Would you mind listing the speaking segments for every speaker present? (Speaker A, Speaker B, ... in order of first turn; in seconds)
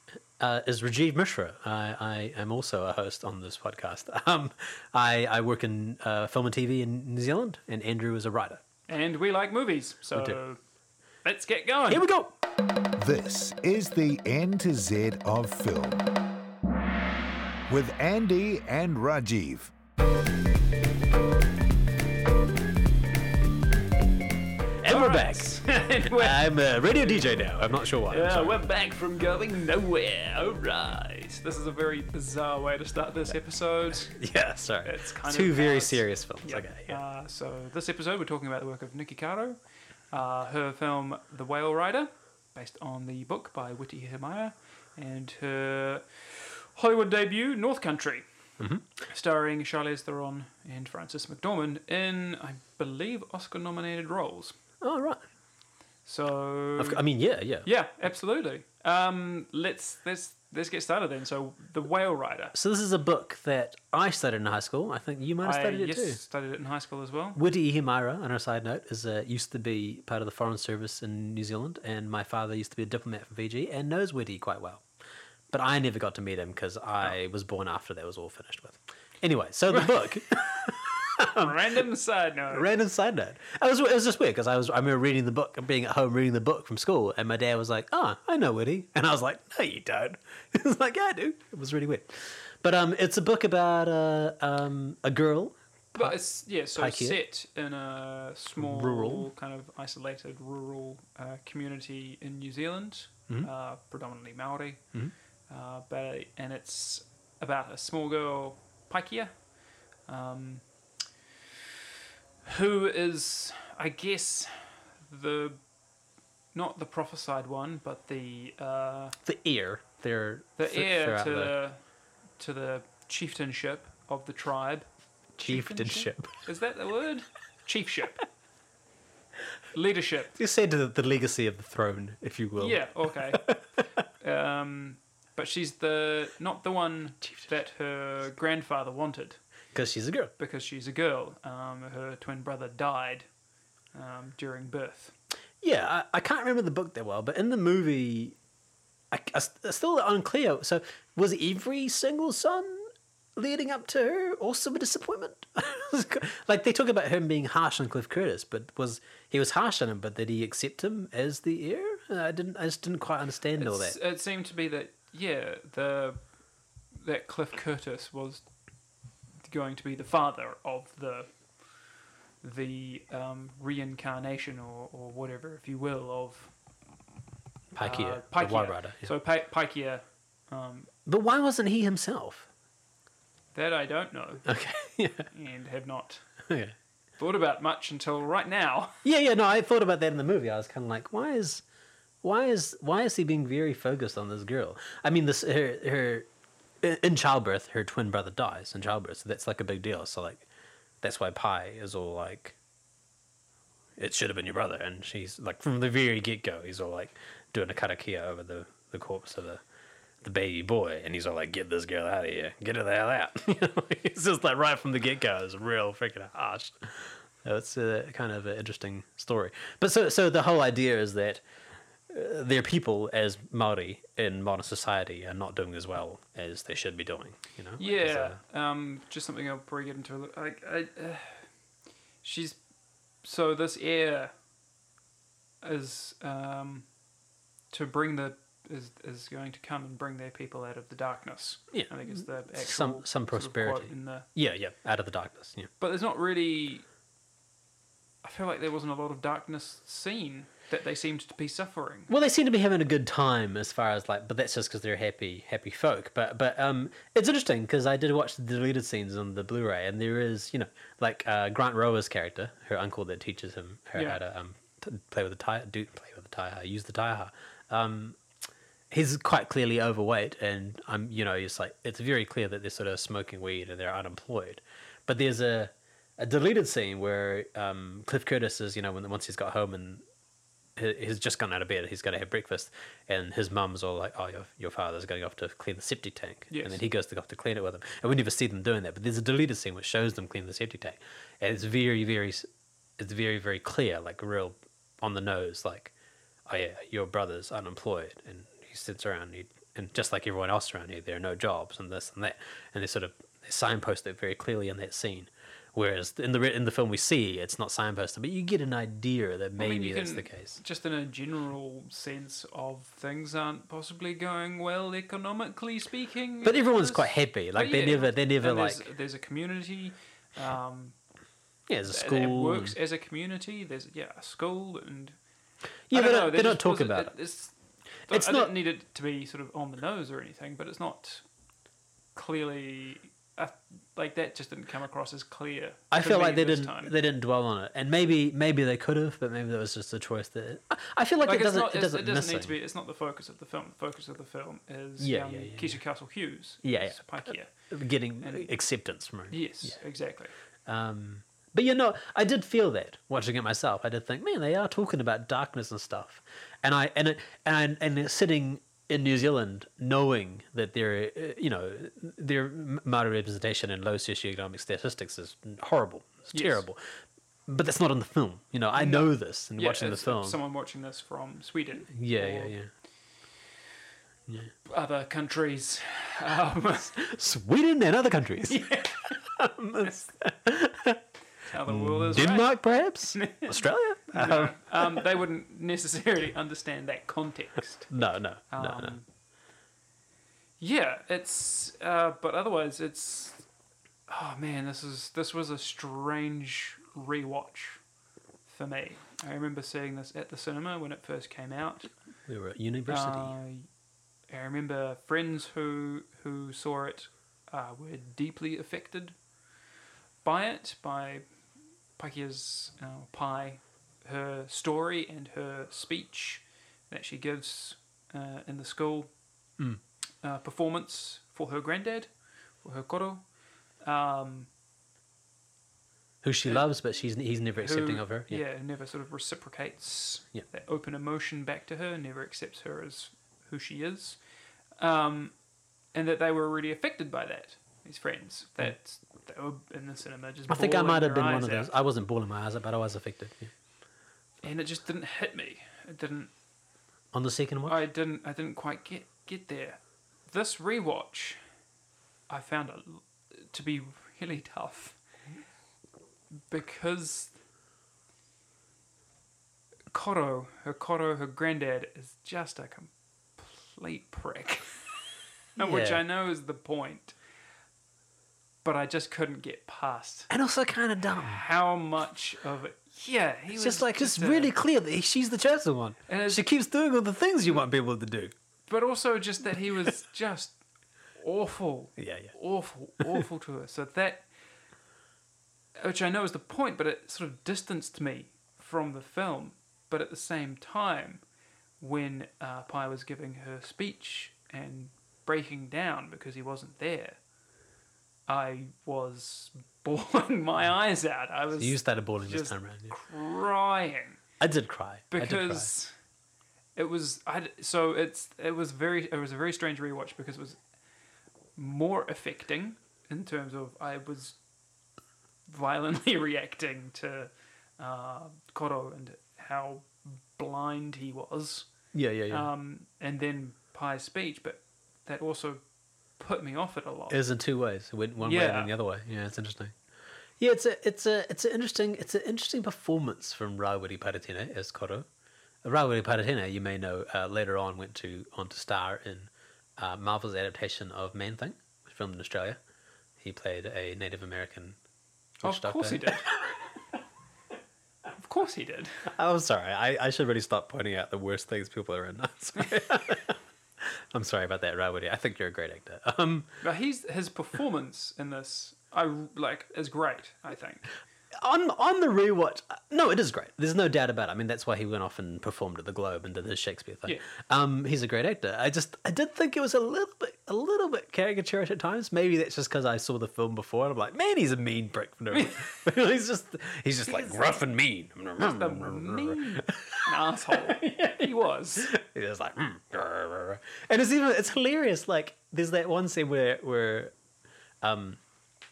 Speaker A: 0.4-8.6, 11.9-12.3, 24.8-25.5, 26.0-28.5, 34.1-37.0, 48.6-48.9, 54.8-55.2, 56.8-57.6, 62.5-66.2, 67.3-74.8, 75.5-81.8, 82.5-97.2, 98.6-99.3, 119.2-121.5, 125.4-126.4, 130.3-133.6, 139.7-140.3, 145.6-148.4, 149.1-164.0, 177.7-179.1, 181.1-182.5, 184.4-185.3, 186.5-186.7, 189.0-191.6, 192.2-196.3, 196.8-200.4, 201.0-202.6, 204.0-209.6, 210.2-221.4, 222.1-228.4, 241.7-245.7, 252.1-268.2, 268.9-280.0, 280.8-292.5, 293.0-295.9, 296.5-310.6, 316.4-318.9, 321.7-322.8, 325.9-327.1, 328.1-328.5, 335.9-342.6, 345.0-345.8, 346.6-349.8, 350.6-366.8, 367.5-370.4, 371.9-372.7, 376.9-381.0, 381.6-385.2, 387.9-389.0, 402.3-403.4, 426.2-428.4, 440.5-443.5, 447.1-447.8, 465.6-466.0, 470.3-471.4, 473.5-478.3, 482.0-482.3, 501.5-502.9, 504.4-505.7, 521.9-522.5, 527.1-529.7, 530.4-535.1, 535.6-542.6, 543.2-544.8, 545.4-546.5, 549.1-556.6, 561.4-587.1, 587.8-588.2
Speaker B: 8.9-10.6, 11.2-12.0, 24.9-27.4, 28.1-34.2, 34.8-39.6, 40.1-48.2, 49.0-54.6, 56.0-57.0, 57.6-62.5, 65.4-67.4, 81.2-82.7, 95.9-104.9, 105.5-109.4, 110.1-110.6, 112.4-115.6, 116.5-119.1, 120.6-121.8, 122.4-128.2, 129.7-130.3, 132.6-133.4, 134.2-139.4, 140.4-143.3, 143.9-145.1, 163.6-166.4, 166.9-168.5, 169.4-171.8, 172.4-176.5, 177.8-180.9, 183.5-184.5, 185.3-186.2, 187.2-189.0, 227.8-231.5, 232.2-232.6, 233.2-234.3, 235.6-236.9, 237.7-244.3, 245.8-246.9, 248.2-252.1, 263.9-264.2, 286.5-286.8, 309.6-321.0, 321.9-325.2, 325.9-327.5, 328.1-331.2, 332.1-336.9, 341.2-347.5, 348.2-348.5, 349.3-350.3, 366.3-366.6, 368.7-372.5, 374.7-376.9, 378.5-379.2, 381.4-382.5, 383.1-383.6, 384.1-387.9, 388.5-389.1, 390.6-393.5, 394.1-397.8, 398.4-401.9, 402.9-403.7, 404.3-409.1, 410.2-411.3, 412.0-419.1, 420.2-424.5, 427.6-434.2, 434.8-435.4, 435.9-441.7, 444.4-446.3, 447.6-451.4, 452.3-455.0, 456.5-457.3, 459.9-464.9, 465.5-467.1, 468.6-470.3, 471.1-474.5, 476.1-476.4, 478.7-480.6, 481.1-484.3, 485.8-491.2, 491.8-497.2, 498.3-504.2, 505.1-505.9, 506.8-510.6, 511.6-514.4, 515.5-521.7, 522.3-525.6, 526.2-527.2, 528.2-528.7, 545.4-546.3, 548.1-549.1, 556.6-560.9, 575.3-575.8, 577.0-577.6, 578.4-581.9
Speaker C: 13.0-16.0, 17.7-19.7